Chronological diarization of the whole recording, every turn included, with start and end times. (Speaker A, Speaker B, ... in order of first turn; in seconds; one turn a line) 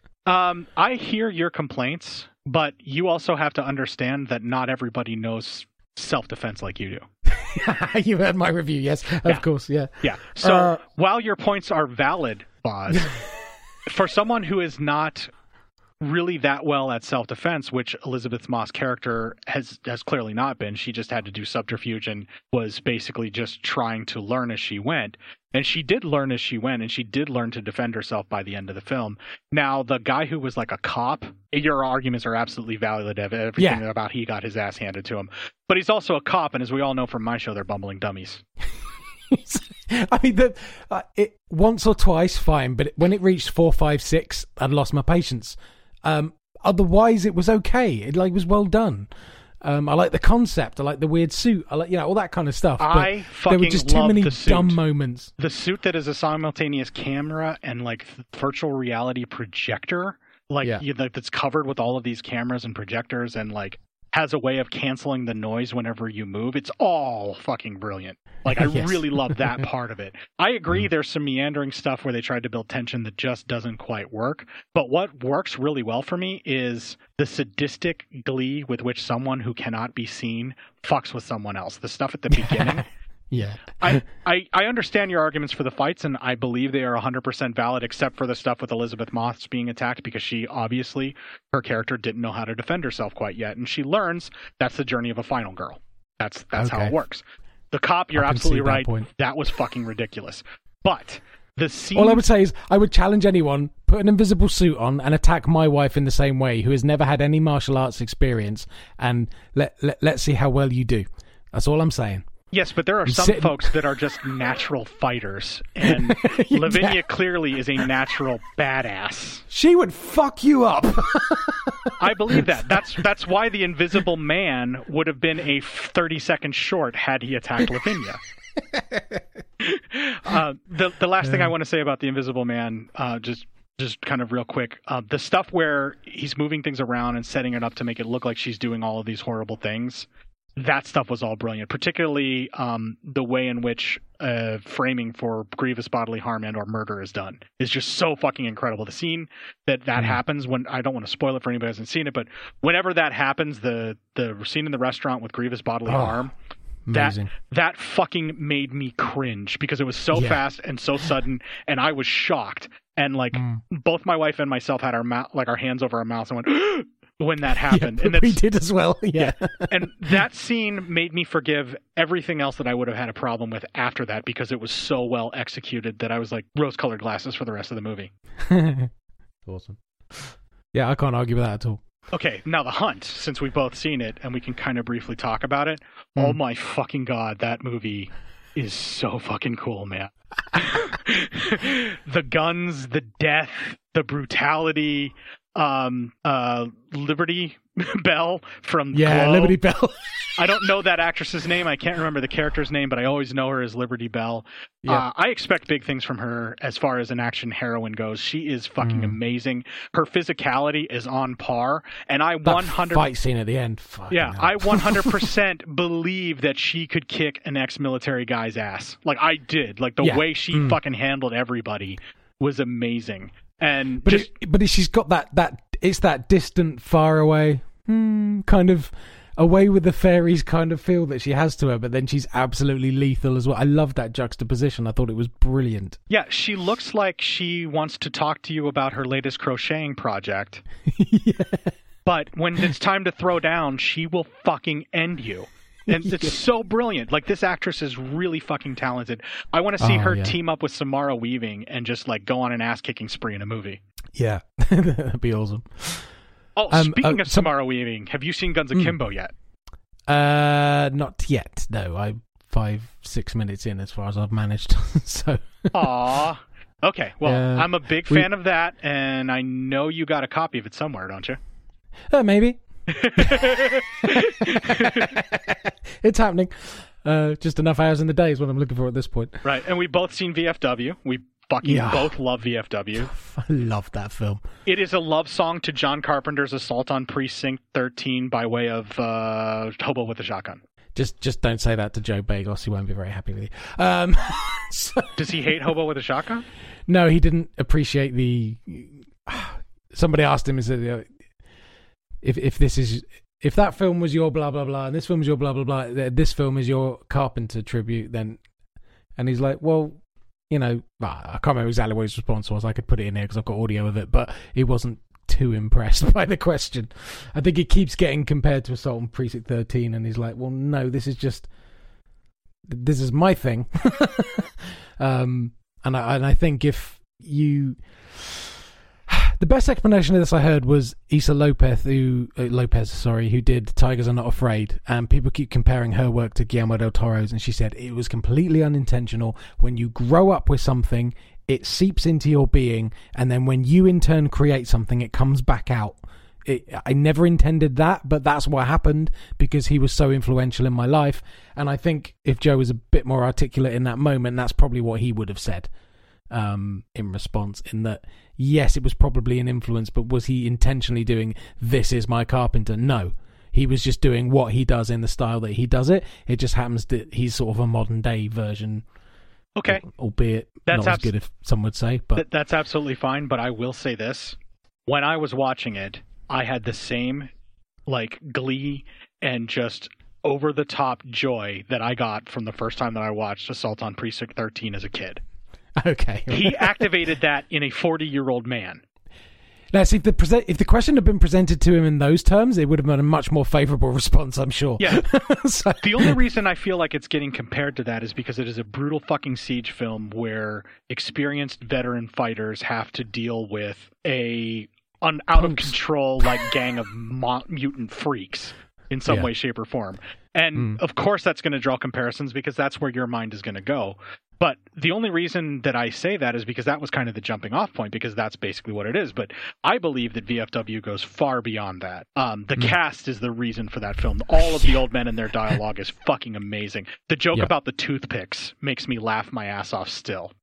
Speaker A: 0.2-7.0
Speaker B: 7.3-10.8
Speaker A: 10.0-13.1
Speaker A: 13.8-15.3
Speaker A: 16.0-38.4
Speaker B: 33.6-33.8
Speaker B: 39.3-49.1
Speaker B: 49.6-55.3
Speaker A: 52.8-54.8
Speaker A: 55.4-82.9
Speaker B: 68.5-69.2
Speaker B: 82.4-84.0
Speaker A: 83.8-102.2
Speaker B: 96.5-96.9
Speaker B: 98.1-99.1
Speaker B: 101.9-112.3
Speaker A: 112.5-119.4
Speaker B: 113.1-113.7
Speaker B: 115.8-117.0
Speaker B: 119.5-122.4
Speaker A: 122.0-128.2
Speaker B: 128.7-129.2
Speaker A: 129.6-156.3
Speaker B: 131.2-131.5
Speaker B: 155.8-156.2
Speaker B: 156.8-157.3
Speaker A: 156.9-168.4
Speaker B: 160.1-160.4
Speaker B: 163.3-163.6
Speaker B: 167.7-169.8
Speaker A: 169.2-178.1
Speaker B: 178.4-178.9
Speaker B: 179.4-181.8
Speaker A: 182.1-199.6
Speaker B: 198.9-200.4
Speaker A: 200.4-213.1
Speaker B: 208.8-209.2
Speaker B: 212.4-215.2
Speaker A: 214.1-224.3
Speaker B: 220.0-220.8
Speaker B: 224.0-236.0
Speaker A: 236.1-240.6
Speaker B: 240.9-241.7
Speaker A: 242.1-253.8
Speaker B: 245.9-246.3
Speaker B: 249.8-250.3
Speaker B: 254.1-256.1
Speaker A: 256.6-259.3
Speaker B: 256.7-257.5
Speaker B: 260.1-265.9
Speaker A: 265.7-271.4
Speaker B: 267.2-268.3
Speaker B: 272.1-272.6
Speaker A: 272.9-275.1
Speaker B: 273.1-279.4
Speaker A: 279.4-283.1
Speaker B: 281.6-282.1
Speaker B: 283.0-284.4
Speaker A: 284.6-290.6
Speaker B: 290.9-295.2
Speaker A: 295.2-296.4
Speaker B: 296.9-301.1
Speaker B: 302.2-308.4
Speaker B: 309.2-321.5
Speaker B: 322.6-328.5
Speaker B: 329.1-355.7
Speaker B: 356.3-368.9
Speaker A: 369.6-369.9
Speaker B: 369.7-372.2
Speaker A: 370.6-371.1
Speaker A: 372.1-377.3
Speaker A: 377.9-385.2
Speaker B: 385.8-386.9
Speaker A: 386.3-388.8
Speaker B: 389.7-396.2
Speaker A: 394.8-395.1
Speaker A: 395.8-430.3
Speaker B: 405.4-405.7